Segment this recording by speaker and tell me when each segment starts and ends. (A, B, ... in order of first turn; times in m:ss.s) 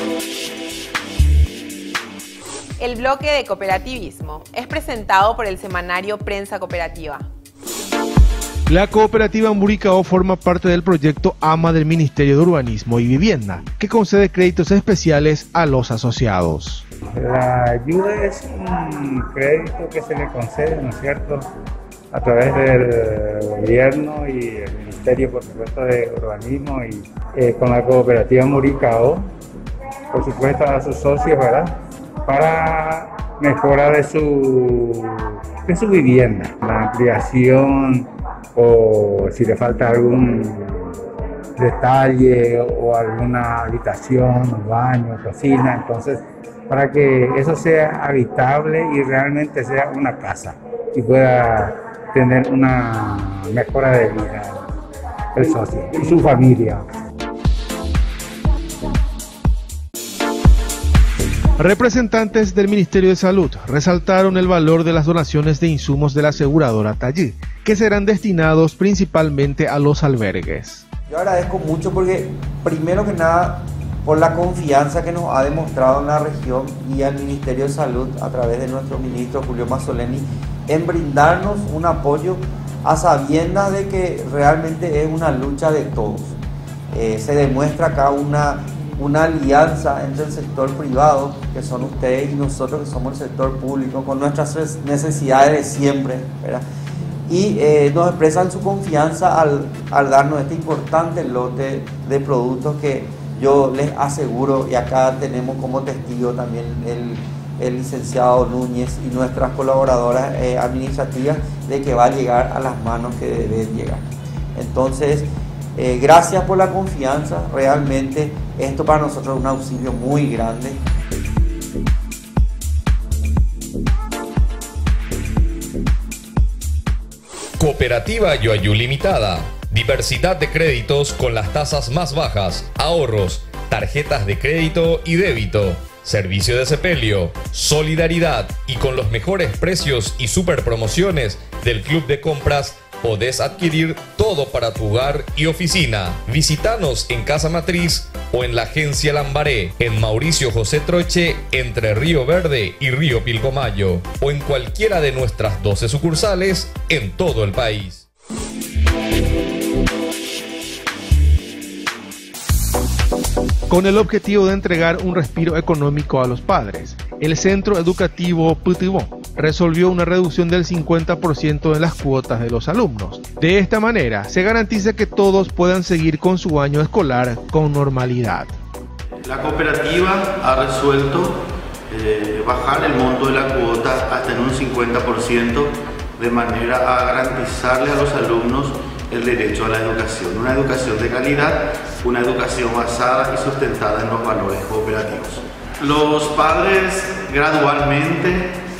0:02.8-0:07.3 A
0:08.7-0:16.8 B
0:17.2-0:21.4 C
0:22.1-0:29.2 C
0:30.1-0:31.7 C
0:32.3-0:40.9 C
0:41.6-0:54.6 C
0:55.4-0:56.8 C
1:01.6-1:10.8 B
1:11.1-1:26.4 D
1:26.9-1:36.6 D
1:37.2-2:00.8 D
2:07.6-2:38.1 E
2:43.7-2:58.5 B
2:59.2-3:01.4 F
3:01.9-3:18.5 F